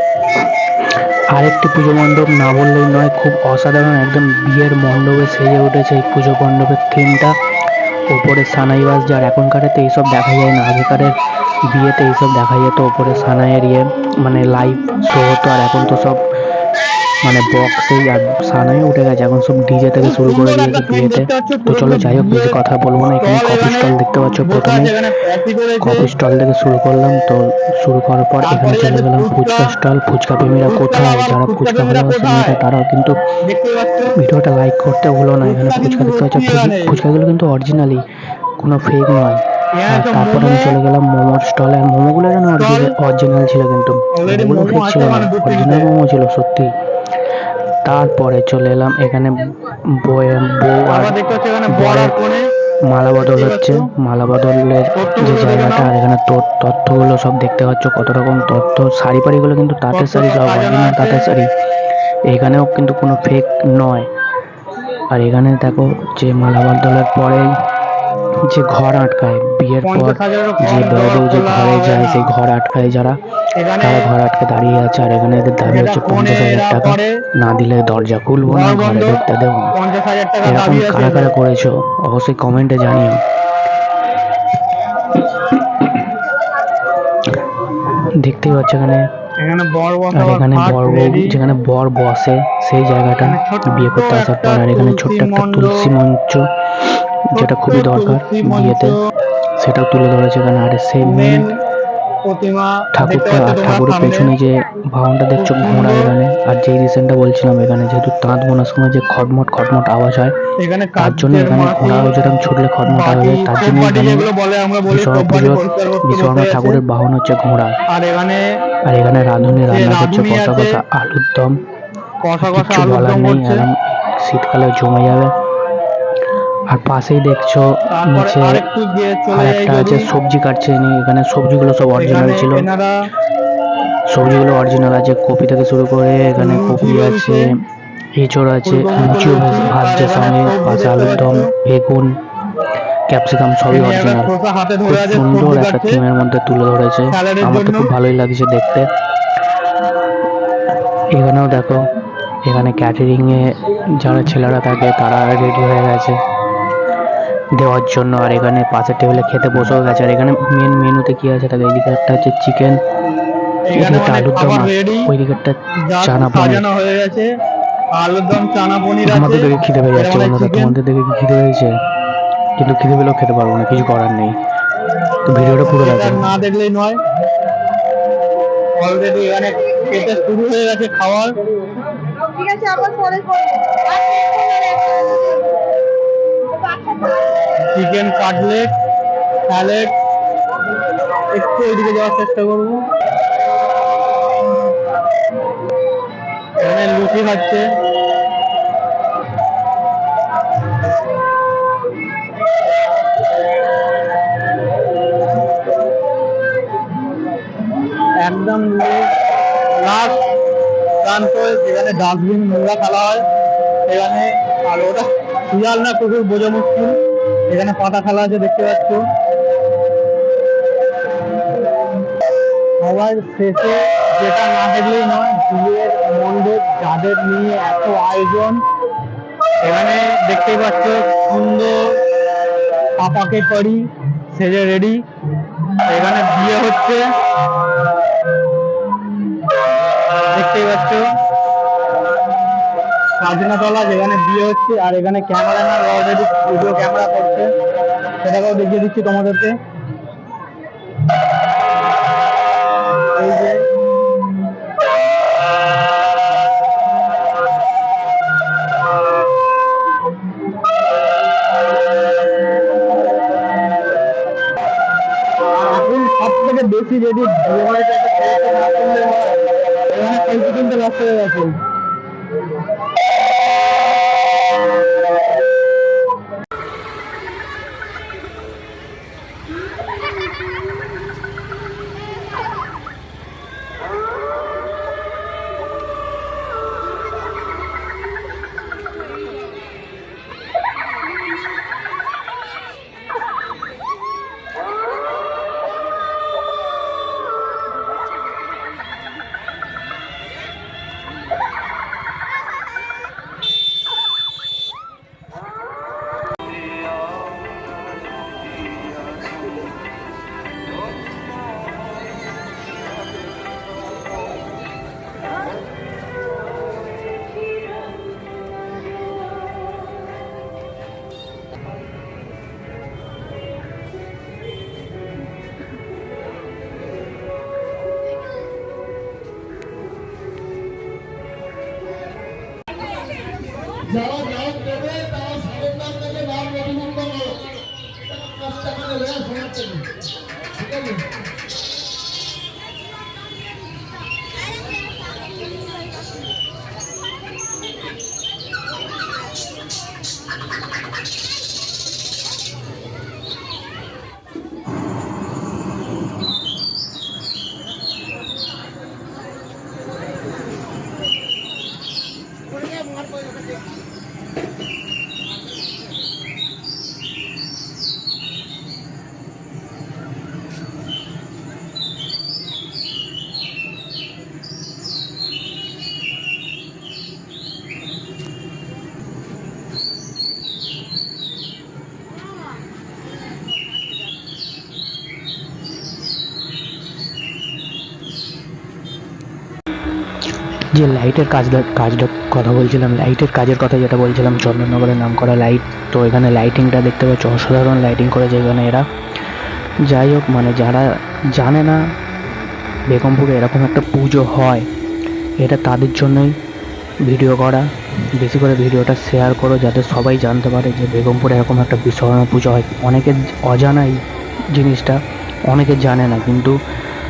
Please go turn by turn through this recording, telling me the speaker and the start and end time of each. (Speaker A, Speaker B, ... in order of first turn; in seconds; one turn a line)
Speaker A: 1.3-7.3
Speaker A: 8.1-11.1
Speaker A: 11.7-16.2
Speaker A: 17.2-24.9
Speaker B: 20.0-23.9
Speaker B: 24.4-26.1
Speaker A: 25.8-33.2
Speaker B: 28.4-29.7
Speaker B: 30.6-32.6
Speaker B: 33.5-34.1
Speaker A: 34.2-38.0
Speaker B: 35.4-37.0
Speaker A: 38.6-46.7
Speaker B: 39.8-40.8
Speaker B: 42.6-42.9
Speaker B: 44.1-45.9
Speaker A: 47.8-51.1
Speaker B: 50.9-52.4
Speaker A: 51.7-52.1
Speaker A: 52.9-61.5
Speaker B: 53.2-53.9
Speaker B: 55.0-55.9
Speaker B: 59.9-61.3
Speaker A: 62.3-64.1
Speaker A: 65.1-67.5
Speaker A: 68.5-73.2
Speaker B: 69.8-72.3
Speaker B: 73.6-74.1
Speaker A: 73.8-79.7
Speaker B: 75.6-77.1
Speaker B: 78.5-79.2
Speaker B: 79.7-81.3
Speaker A: 80.4-83.2
Speaker A: 88.0-89.1
Speaker B: 89.4-91.4
Speaker A: 90.1-96.5
Speaker B: 93.2-95.9
Speaker A: 97.3-98.9
Speaker B: 97.3-99.0
Speaker A: 99.6-101.4
Speaker B: 101.0-101.5
Speaker B: 102.3-104.3
Speaker A: 103.0-110.3
Speaker B: 105.4-106.1
Speaker B: 110.6-112.3
Speaker A: 111.0-114.3
Speaker B: 112.8-116.8
Speaker A: 114.9-117.8
Speaker B: 117.9-118.4
Speaker A: 118.8-121.6
Speaker B: 119.7-120.8
Speaker B: 122.2-123.7
Speaker A: 122.4-125.3
Speaker A: 126.7-128.6
Speaker B: 127.9-130.1
Speaker A: 129.3-132.7
Speaker B: 131.9-132.9
Speaker A: 134.1-137.4
Speaker B: 136.3-137.4
Speaker A: 138.1-142.1
Speaker B: 138.6-141.5
Speaker A: 143.1-144.3
Speaker B: 143.7-146.0
Speaker A: 144.9-148.9
Speaker B: 147.1-147.9
Speaker A: 151.1-151.9
Speaker A: 152.4-156.2
Speaker A: 157.5-162.8
Speaker B: 163.7-165.1
Speaker A: 163.8-166.7
Speaker B: 165.9-167.3
Speaker B: 168.0-170.7
Speaker A: 169.1-171.7
Speaker A: 172.6-174.3
Speaker A: 175.2-176.2
Speaker B: 175.6-177.0
Speaker B: 178.8-181.3
Speaker C: 182.3-185.5
Speaker C: 186.6-187.4
Speaker B: 187.7-188.7
Speaker B: 189.5-189.9
Speaker B: 191.3-192.8
Speaker B: 196.6-197.6
Speaker B: 208.2-209.1
Speaker B: 209.8-210.2
Speaker B: 211.0-213.2
Speaker B: 213.9-217.0
Speaker B: 217.5-219.0
Speaker B: 222.8-228.6
Speaker B: 229.6-231.8
Speaker B: 233.0-233.8
Speaker B: 234.3-235.0
Speaker B: 235.9-237.0
Speaker B: 240.3-241.0
Speaker B: 243.2-247.5
Speaker B: 248.2-249.5
Speaker B: 253.1-253.6
Speaker B: 265.5-271.6
Speaker A: 390.7-398.8
Speaker A: 399.9-401.8
Speaker A: 402.9-404.6
Speaker A: 405.4-406.3
Speaker A: 407.1-407.6
Speaker A: 408.2-414.0
Speaker A: 414.5-415.0
Speaker A: 415.5-416.5